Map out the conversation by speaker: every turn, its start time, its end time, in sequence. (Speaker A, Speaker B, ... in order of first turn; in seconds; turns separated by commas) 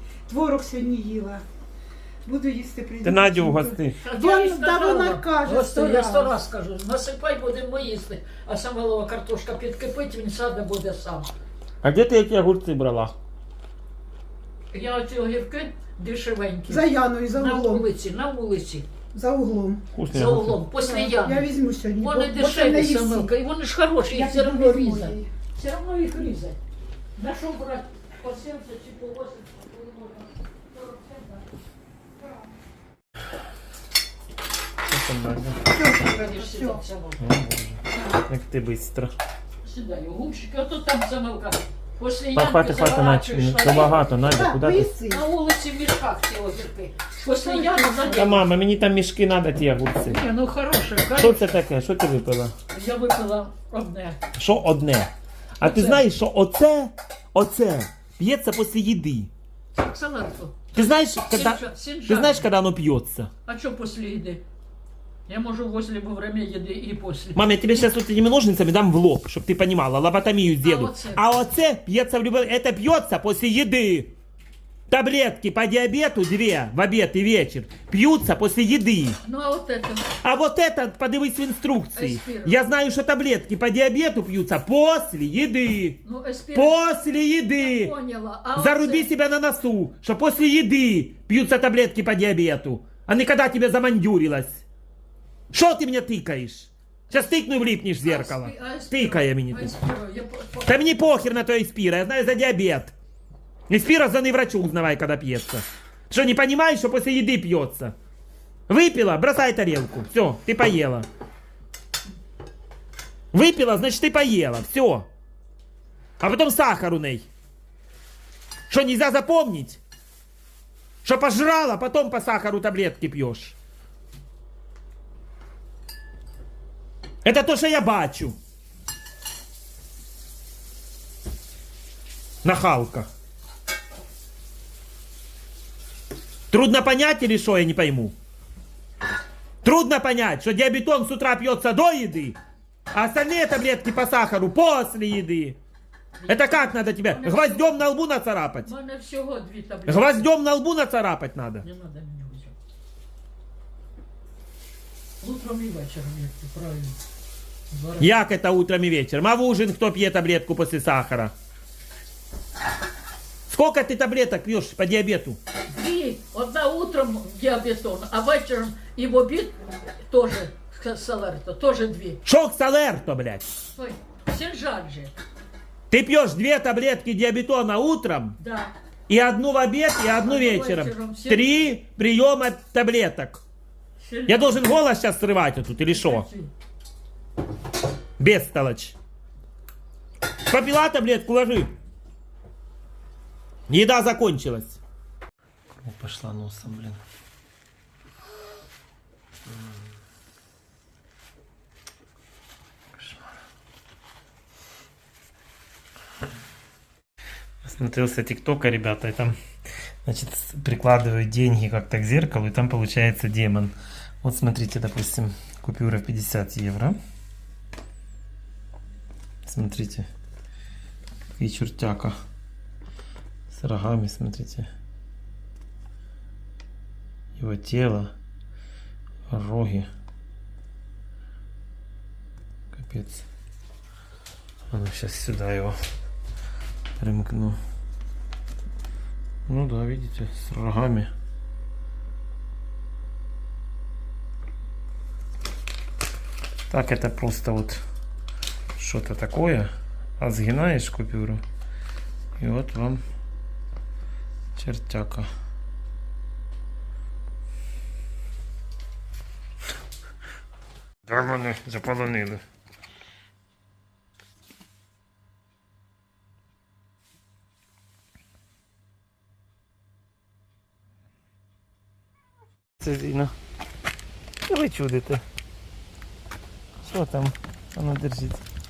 Speaker A: 0.3-1.4, Speaker A: 2.2-6.4, Speaker B: 3.0-4.0, Speaker C: 4.0-11.3, Speaker B: 11.8-13.2, Speaker C: 14.7-18.9, Speaker A: 16.7-17.9, Speaker A: 19.1-19.8, Speaker B: 19.9-20.6, Speaker C: 20.1-26.6, Speaker A: 20.8-23.3, Speaker A: 24.1-25.3, Speaker C: 27.2-31.4, Speaker A: 32.2-32.5, Speaker B: 34.9-35.6, Speaker A: 35.7-36.8, Speaker C: 35.8-37.2, Speaker B: 37.2-39.1, Speaker C: 39.6-44.0, Speaker B: 42.4-44.9, Speaker A: 44.2-45.2, Speaker C: 45.1-48.4, Speaker A: 47.4-48.4, Speaker B: 48.1-50.2, Speaker C: 50.0-51.6, Speaker B: 51.1-52.5, Speaker C: 52.7-54.2, Speaker B: 54.4-59.3, Speaker C: 55.6-56.0, Speaker C: 59.7-62.5, Speaker B: 60.7-63.3, Speaker C: 63.5-64.4, Speaker C: 65.3-67.8, Speaker B: 67.3-74.1, Speaker C: 70.6-71.2, Speaker B: 74.9-79.2, Speaker C: 79.2-80.1, Speaker B: 80.2-86.0, Speaker C: 82.0-82.6, Speaker C: 86.0-86.9, Speaker B: 86.5-87.9, Speaker C: 87.5-89.1, Speaker B: 88.6-94.6, Speaker B: 95.5-99.7, Speaker C: 98.0-100.9, Speaker B: 100.7-102.9, Speaker B: 103.7-108.0, Speaker B: 108.7-111.1, Speaker B: 113.3-115.1, Speaker B: 116.2-117.3, Speaker B: 118.7-119.8, Speaker B: 121.0-123.6, Speaker B: 127.2-128.4, Speaker B: 132.4-133.1, Speaker B: 136.5-138.2, Speaker B: 139.6-142.4, Speaker B: 142.9-145.6, Speaker C: 146.2-147.8, Speaker B: 146.3-148.7, Speaker C: 148.7-150.3, Speaker B: 149.9-151.7, Speaker C: 151.6-152.6, Speaker C: 155.2-157.0, Speaker C: 157.7-158.2, Speaker B: 158.0-161.3, Speaker B: 163.5-165.4, Speaker C: 165.7-172.2, Speaker B: 172.2-173.4, Speaker C: 173.7-175.1, Speaker B: 175.9-178.4, Speaker C: 178.4-178.7, Speaker B: 179.1-183.4, Speaker C: 180.1-181.7, Speaker C: 184.0-184.7, Speaker B: 184.3-186.3, Speaker C: 185.9-186.5, Speaker B: 188.2-188.9, Speaker B: 190.5-191.7, Speaker B: 193.7-194.8, Speaker B: 195.8-197.0, Speaker B: 199.5-199.9, Speaker B: 203.0-203.3, Speaker B: 207.6-209.3, Speaker B: 210.1-217.0, Speaker B: 219.4-220.1, Speaker B: 221.4-222.2, Speaker B: 223.5-224.7, Speaker B: 227.4-228.1, Speaker B: 229.3-229.9, Speaker B: 232.7-233.3, Speaker B: 234.7-235.8, Speaker B: 237.0-237.6, Speaker B: 239.5-241.1, Speaker B: 246.7-247.8, Speaker B: 248.8-251.4, Speaker B: 252.4-253.0, Speaker B: 254.6-255.3, Speaker B: 261.1-262.4, Speaker B: 272.8-273.3, Speaker B: 274.5-275.2, Speaker B: 276.8-278.4